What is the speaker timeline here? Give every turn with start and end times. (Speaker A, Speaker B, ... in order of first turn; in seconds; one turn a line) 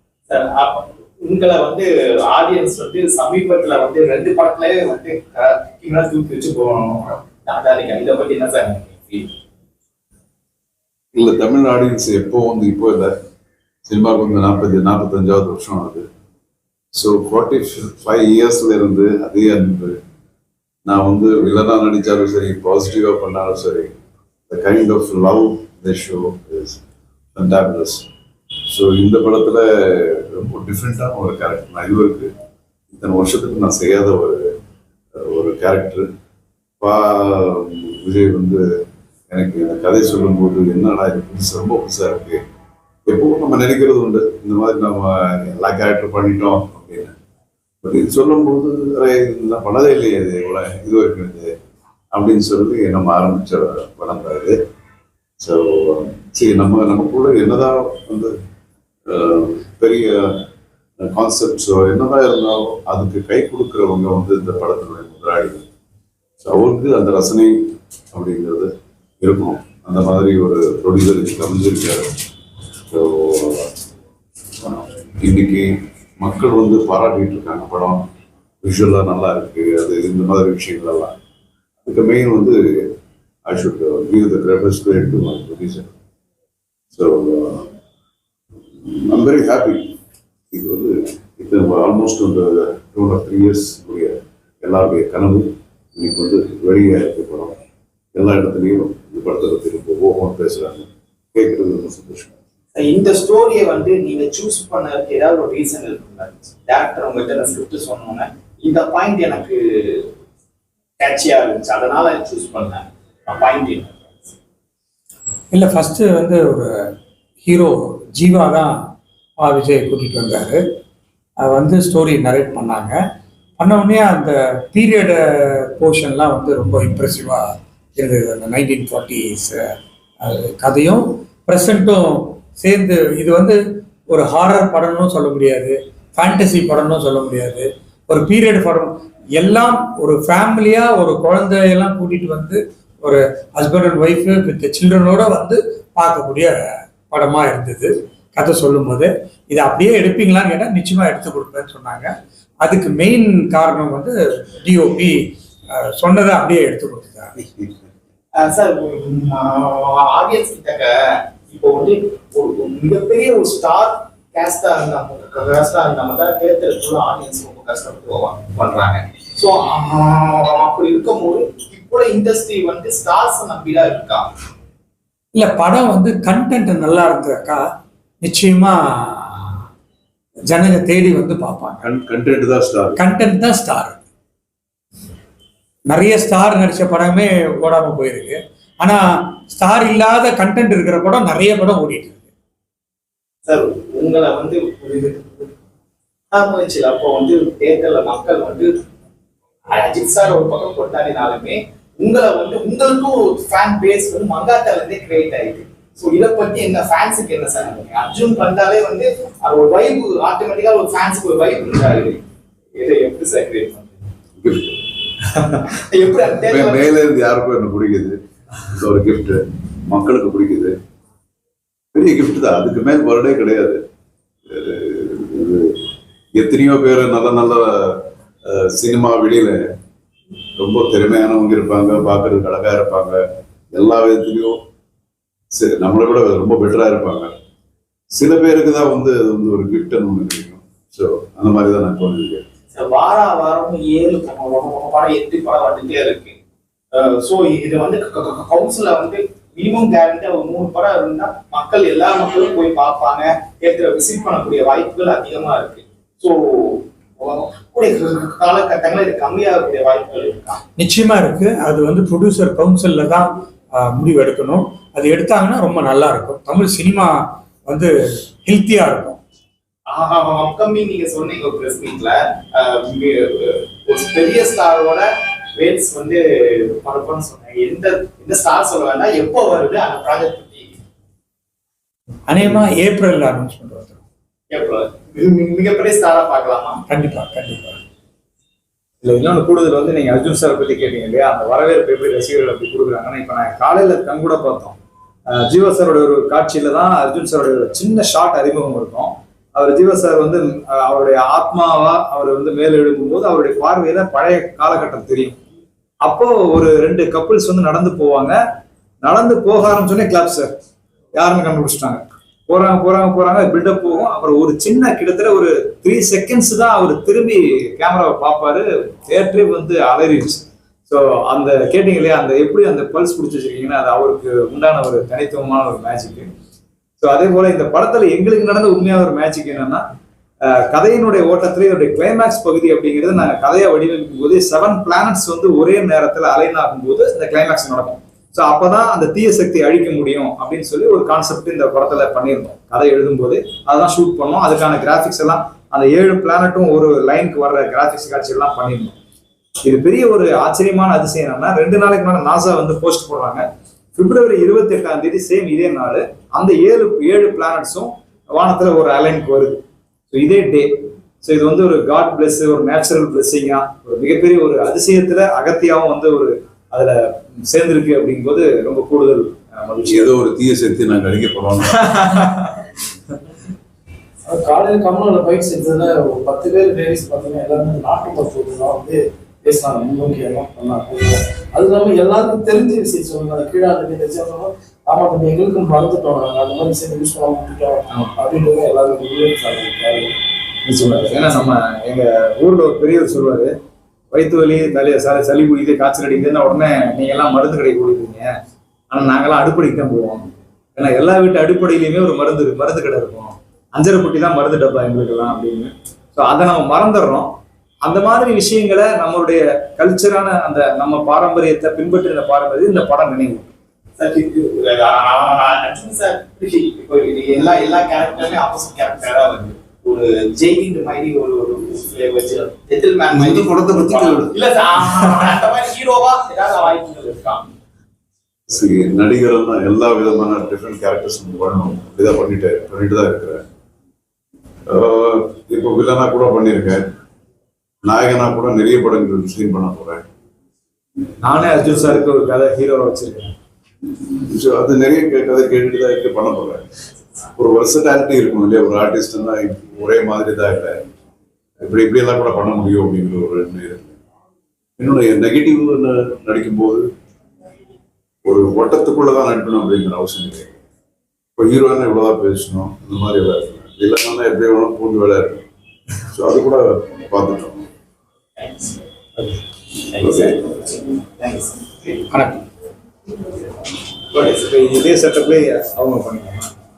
Speaker A: 0.3-9.3
Speaker B: 11.1-13.1
Speaker B: 13.8-16.1
Speaker B: 16.9-19.9
Speaker B: 20.9-23.9
Speaker B: 24.5-26.8
Speaker B: 27.3-28.1
Speaker B: 28.7-32.3
Speaker B: 32.9-34.5
Speaker B: 35.2-36.1
Speaker B: 36.8-38.6
Speaker B: 39.3-42.4
Speaker B: 43.1-47.1
Speaker B: 47.8-51.5
Speaker B: 52.1-54.6
Speaker B: 55.4-58.3
Speaker B: 59.1-60.5
Speaker B: 61.0-65.7
Speaker B: 66.4-72.1
Speaker B: 72.9-73.7
Speaker B: 74.6-78.0
Speaker B: 78.6-81.1
Speaker B: 81.8-82.9
Speaker B: 83.5-85.9
Speaker B: 86.9-87.7
Speaker B: 88.8-89.9
Speaker B: 90.5-97.6
Speaker B: 98.1-102.3
Speaker A: 102.7-110.1
Speaker A: 111.0-114.3
Speaker C: 115.5-116.7
Speaker C: 117.4-118.7
Speaker C: 119.4-120.6
Speaker C: 121.4-123.0
Speaker C: 123.6-129.6
Speaker C: 130.2-133.6
Speaker C: 134.1-146.6
Speaker C: 147.1-155.2
Speaker C: 155.7-157.6
Speaker A: 158.4-174.2
Speaker C: 175.3-177.6
Speaker C: 178.2-179.6
Speaker C: 180.5-181.8
Speaker B: 181.8-183.0
Speaker C: 183.0-184.0
Speaker C: 185.9-192.2
Speaker A: 193.4-195.5
Speaker A: 196.3-198.7
Speaker A: 199.7-212.2
Speaker A: 212.8-214.0
Speaker B: 214.4-214.8
Speaker A: 215.7-216.9
Speaker B: 216.4-218.2
Speaker B: 218.7-220.7
Speaker B: 221.9-223.8
Speaker B: 224.5-225.8
Speaker B: 226.3-229.6
Speaker B: 230.6-234.6
Speaker B: 235.5-237.3
Speaker B: 238.1-242.4
Speaker A: 242.7-246.3
Speaker A: 246.9-260.6
Speaker C: 260.8-267.1
Speaker C: 267.6-267.9
Speaker C: 268.4-269.2
Speaker A: 269.9-275.0
Speaker A: 275.6-280.7
Speaker C: 282.3-284.0
Speaker A: 284.5-286.8
Speaker C: 286.9-287.8
Speaker D: 289.0-294.8
Speaker D: 295.3-305.4
Speaker D: 306.0-308.4
Speaker D: 309.0-310.5
Speaker D: 311.1-326.3
Speaker D: 327.0-329.8
Speaker D: 330.5-348.9
Speaker D: 349.6-353.4
Speaker D: 353.9-359.6
Speaker D: 360.1-370.1
Speaker B: 369.9-371.9
Speaker D: 371.8-372.6
Speaker E: 374.3-390.1
Speaker D: 387.9-388.2
Speaker D: 390.6-393.5
Speaker D: 394.1-398.3
Speaker D: 398.9-407.3
Speaker D: 407.8-413.5
Speaker A: 414.0-427.5
Speaker B: 423.3-424.3
Speaker B: 428.5-433.4
Speaker B: 434.7-436.8
Speaker B: 437.8-440.0
Speaker D: 441.2-443.3
Speaker B: 444.2-446.6
Speaker B: 447.4-450.8
Speaker B: 451.6-454.0
Speaker B: 454.8-456.8
Speaker B: 458.2-460.5
Speaker B: 461.4-465.4
Speaker B: 466.1-467.6
Speaker A: 468.4-468.8
Speaker A: 469.9-472.0
Speaker B: 470.0-470.5
Speaker C: 472.1-472.4
Speaker D: 474.1-476.5